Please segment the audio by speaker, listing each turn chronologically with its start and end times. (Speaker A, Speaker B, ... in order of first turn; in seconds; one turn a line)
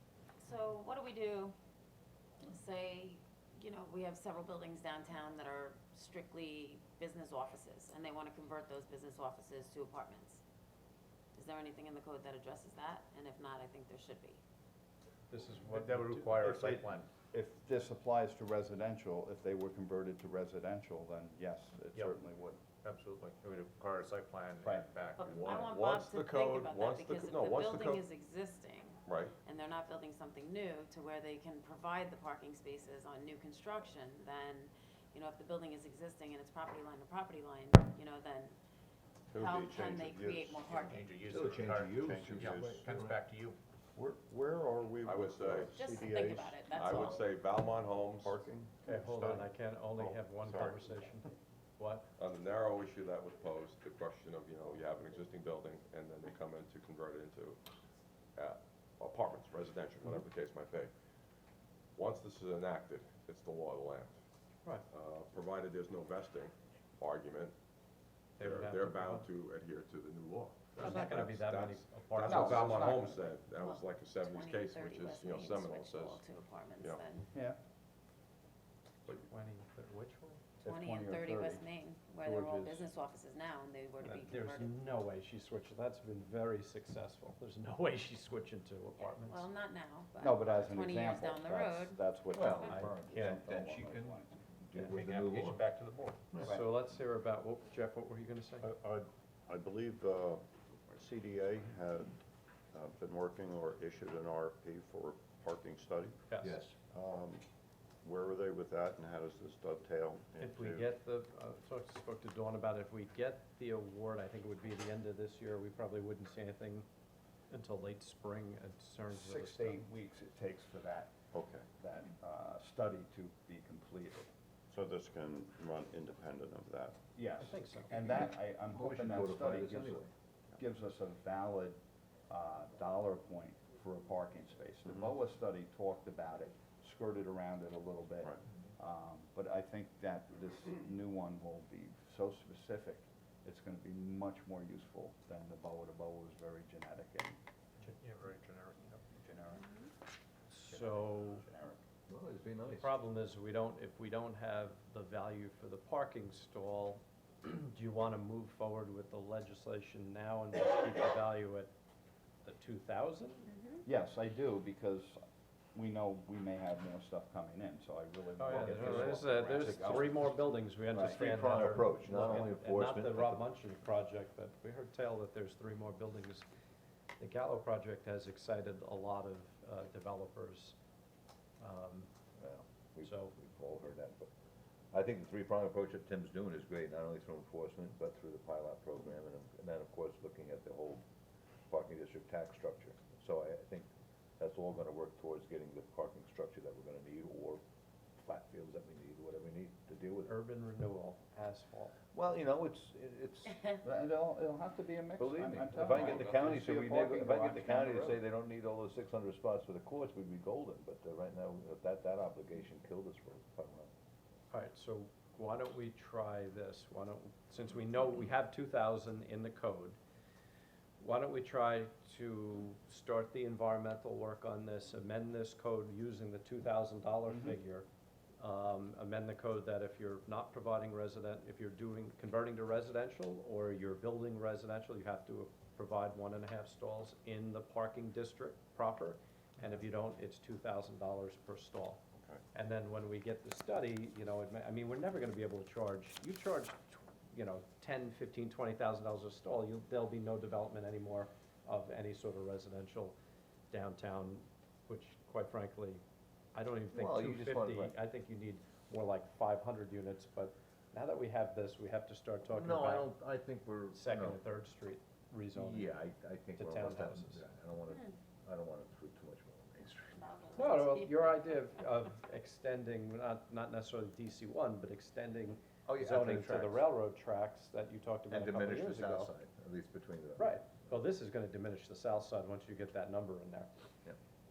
Speaker A: 0.4-1.5
Speaker A: 2.4-10.4
Speaker A: 11.3-14.4
Speaker B: 15.3-16.4
Speaker C: 15.7-17.1
Speaker D: 16.4-22.6
Speaker C: 22.8-25.6
Speaker D: 24.6-24.9
Speaker A: 25.2-38.5
Speaker E: 25.2-28.0
Speaker E: 29.1-29.3
Speaker F: 39.3-40.9
Speaker A: 39.3-41.2
Speaker C: 40.8-43.6
Speaker G: 41.2-43.2
Speaker F: 42.0-42.9
Speaker F: 44.0-47.2
Speaker E: 45.0-45.8
Speaker A: 45.7-47.3
Speaker E: 46.6-48.4
Speaker F: 48.0-50.9
Speaker B: 48.8-52.0
Speaker E: 52.2-57.6
Speaker E: 58.4-60.9
Speaker E: 62.0-64.2
Speaker E: 64.9-67.5
Speaker B: 68.4-69.3
Speaker E: 68.4-77.0
Speaker B: 70.8-73.1
Speaker D: 72.2-73.2
Speaker A: 73.6-77.3
Speaker B: 79.1-80.4
Speaker D: 80.6-81.6
Speaker A: 80.6-84.7
Speaker B: 82.2-82.8
Speaker B: 84.0-89.5
Speaker A: 89.0-92.0
Speaker D: 90.2-94.4
Speaker G: 92.3-95.6
Speaker C: 94.7-96.4
Speaker G: 96.3-96.6
Speaker B: 96.4-98.7
Speaker F: 98.6-102.1
Speaker F: 102.7-106.2
Speaker B: 106.3-106.6
Speaker G: 106.4-106.8
Speaker F: 106.8-107.4
Speaker F: 108.0-110.9
Speaker B: 110.4-116.8
Speaker B: 117.5-119.8
Speaker D: 119.1-121.2
Speaker F: 121.3-121.7
Speaker D: 121.8-124.3
Speaker F: 124.7-127.0
Speaker D: 127.2-147.4
Speaker B: 127.4-128.2
Speaker G: 128.1-130.1
Speaker C: 147.8-149.0
Speaker D: 149.1-149.7
Speaker B: 150.5-151.4
Speaker D: 150.7-151.8
Speaker G: 152.1-152.9
Speaker B: 152.7-161.7
Speaker B: 162.4-163.5
Speaker A: 163.5-163.8
Speaker D: 163.8-165.2
Speaker D: 165.7-171.2
Speaker B: 168.4-176.4
Speaker G: 168.5-170.0
Speaker G: 170.9-173.5
Speaker B: 177.2-180.8
Speaker B: 181.6-182.1
Speaker G: 182.4-184.3
Speaker B: 183.0-183.3
Speaker G: 184.9-191.0
Speaker G: 191.7-197.6
Speaker G: 198.2-200.3
Speaker B: 200.2-201.9
Speaker G: 202.1-203.6
Speaker D: 203.8-208.2
Speaker G: 205.2-213.9
Speaker B: 214.5-220.0
Speaker B: 221.0-227.9
Speaker D: 227.3-227.6
Speaker B: 228.4-242.0
Speaker F: 242.1-242.4
Speaker B: 242.5-253.2
Speaker B: 253.7-256.0
Speaker B: 256.5-263.1
Speaker G: 256.9-257.9
Speaker G: 262.5-264.4
Speaker B: 263.9-265.9
Speaker G: 265.5-270.3
Speaker B: 266.6-267.4
Speaker A: 267.9-268.1
Speaker A: 270.1-271.1
Speaker B: 270.6-279.3
Speaker G: 275.9-276.9
Speaker G: 278.3-280.8
Speaker B: 280.4-283.7